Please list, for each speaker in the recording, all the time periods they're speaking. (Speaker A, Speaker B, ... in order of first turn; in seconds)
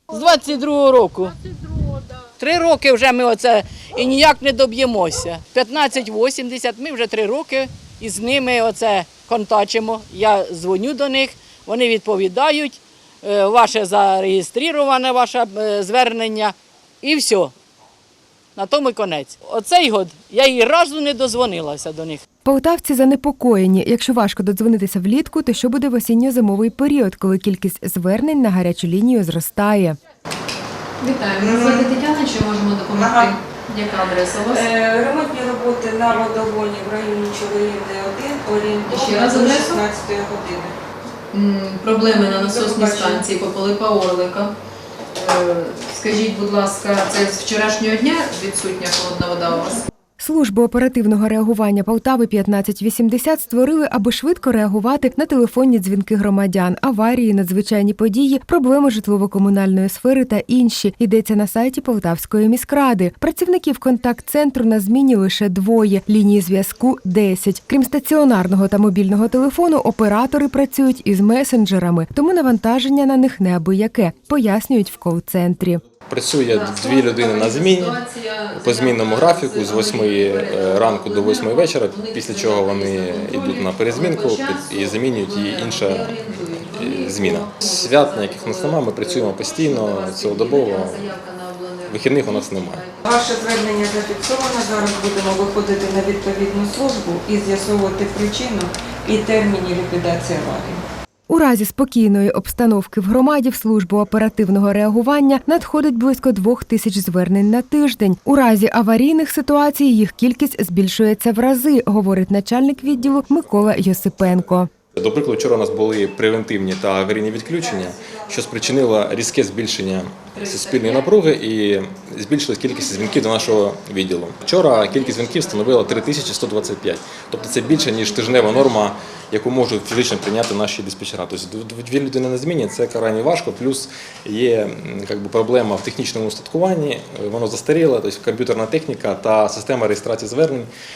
Speaker A: 0.1-1.5, 2.2-17.5, 18.6-22.2
Speaker B: 22.4-30.0, 50.2-75.8, 101.3-114.7
Speaker C: 31.0-34.7, 38.9-39.8, 41.3-44.5, 45.1-49.9, 76.5-93.0, 120.3-121.3, 122.7-123.5, 124.6-128.9
Speaker D: 31.4-31.9, 32.9-33.3, 34.5-40.8, 42.0-43.3, 93.0-100.8, 117.9-118.2
Speaker E: 76.1-78.0, 78.5-91.1, 91.9-92.8, 115.0-140.7